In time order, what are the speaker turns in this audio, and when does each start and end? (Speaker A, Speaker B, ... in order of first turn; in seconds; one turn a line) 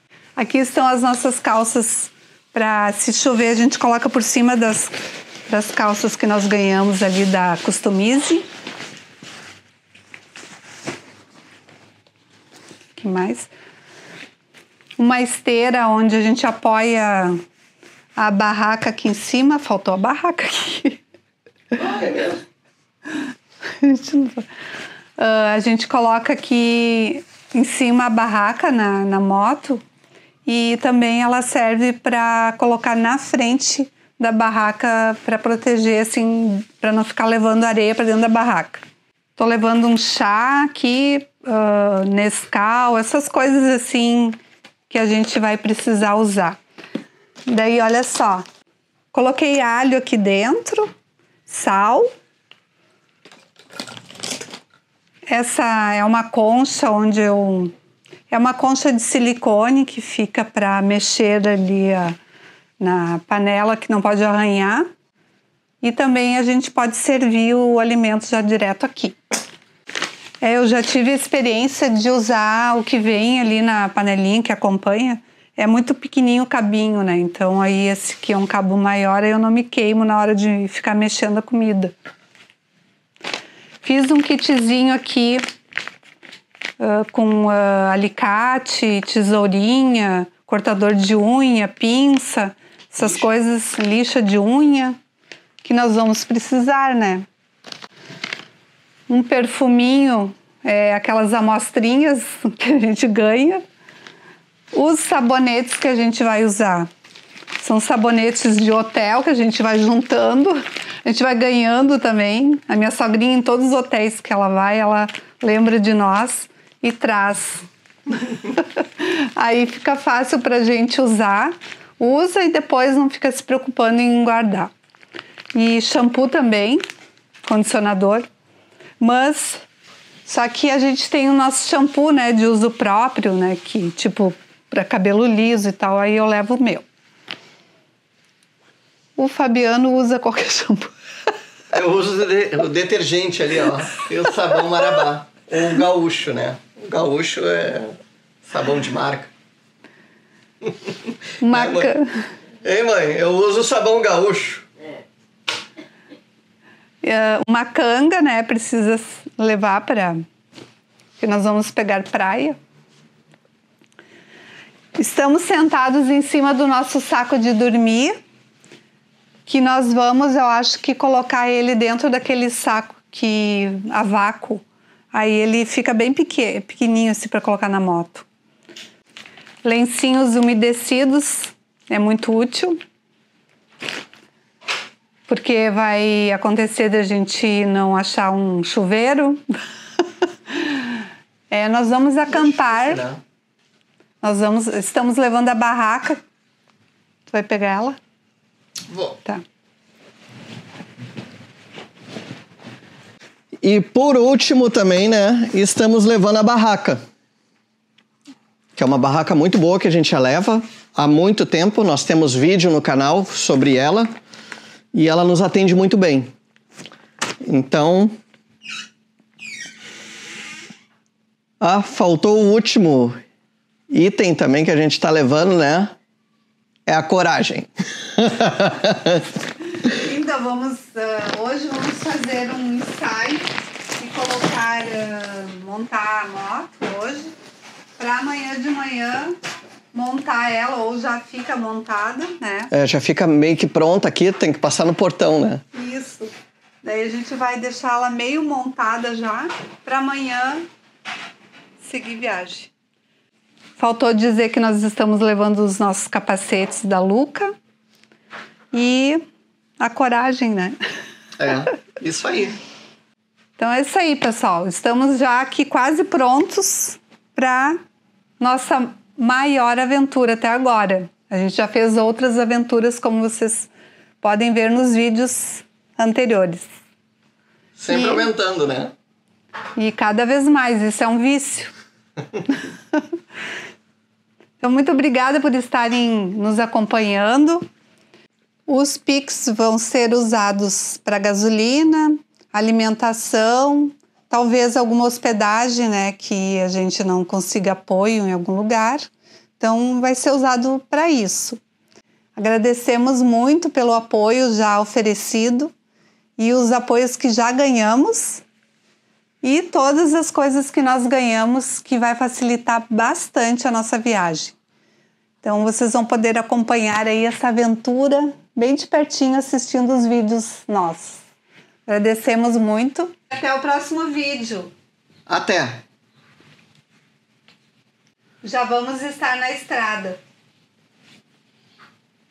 Speaker A: 0.4-5.0
Speaker A: 5.5-8.4
Speaker A: 13.0-13.5
Speaker A: 15.0-17.4
Speaker A: 18.2-21.0
Speaker B: 21.7-22.4
Speaker A: 23.8-24.5
Speaker A: 25.2-29.8
Speaker A: 30.5-38.8
Speaker A: 39.4-44.4
Speaker A: 44.9-46.6
Speaker A: 47.5-48.5
Speaker A: 49.1-50.9
Speaker A: 51.5-52.1
Speaker A: 55.3-57.7
Speaker A: 58.3-62.2
Speaker A: 62.8-64.9
Speaker A: 65.8-69.2
Speaker A: 70.4-81.9
Speaker A: 83.8-85.4
Speaker A: 86.8-95.0
Speaker A: 95.6-97.2
Speaker A: 99.1-103.6
Speaker A: 104.7-106.9
Speaker A: 107.6-124.7
Speaker A: 125.5-126.8
Speaker A: 127.5-128.3
Speaker A: 129.0-129.7
Speaker A: 130.3-136.9
Speaker A: 139.2-140.9
Speaker B: 141.7-149.3
Speaker B: 150.7-150.9
Speaker A: 151.4-152.3
Speaker B: 151.5-151.9
Speaker B: 152.6-154.7
Speaker A: 157.0-160.2
Speaker A: 161.2-162.6
Speaker A: 165.0-168.2
Speaker A: 169.5-178.3
Speaker A: 179.6-182.8
Speaker A: 185.3-189.5
Speaker A: 190.5-193.1
Speaker B: 192.7-193.2
Speaker A: 194.2-196.2
Speaker A: 197.3-198.0
Speaker B: 198.9-199.2
Speaker B: 203.6-207.0
Speaker B: 208.8-214.1
Speaker B: 214.9-216.3
Speaker B: 217.4-218.2
Speaker B: 221.6-223.2
Speaker B: 223.9-225.9
Speaker B: 226.9-229.2
Speaker A: 229.8-237.3
Speaker A: 238.0-239.4
Speaker A: 239.9-242.7
Speaker B: 242.7-245.6
Speaker A: 245.7-250.6
Speaker A: 251.8-252.7
Speaker A: 253.8-257.5
Speaker A: 258.7-259.2
Speaker A: 259.8-260.8
Speaker B: 261.4-262.6
Speaker A: 263.6-267.8
Speaker A: 268.4-273.7
Speaker A: 274.2-276.7
Speaker B: 277.8-278.9
Speaker A: 277.9-278.3
Speaker A: 279.8-281.7
Speaker A: 282.5-283.0
Speaker A: 284.6-287.7
Speaker A: 288.7-301.6
Speaker A: 302.4-305.7
Speaker A: 306.4-308.4
Speaker A: 309.4-314.6
Speaker A: 315.4-321.2
Speaker A: 321.9-324.7
Speaker B: 325.3-325.8
Speaker A: 328.4-330.2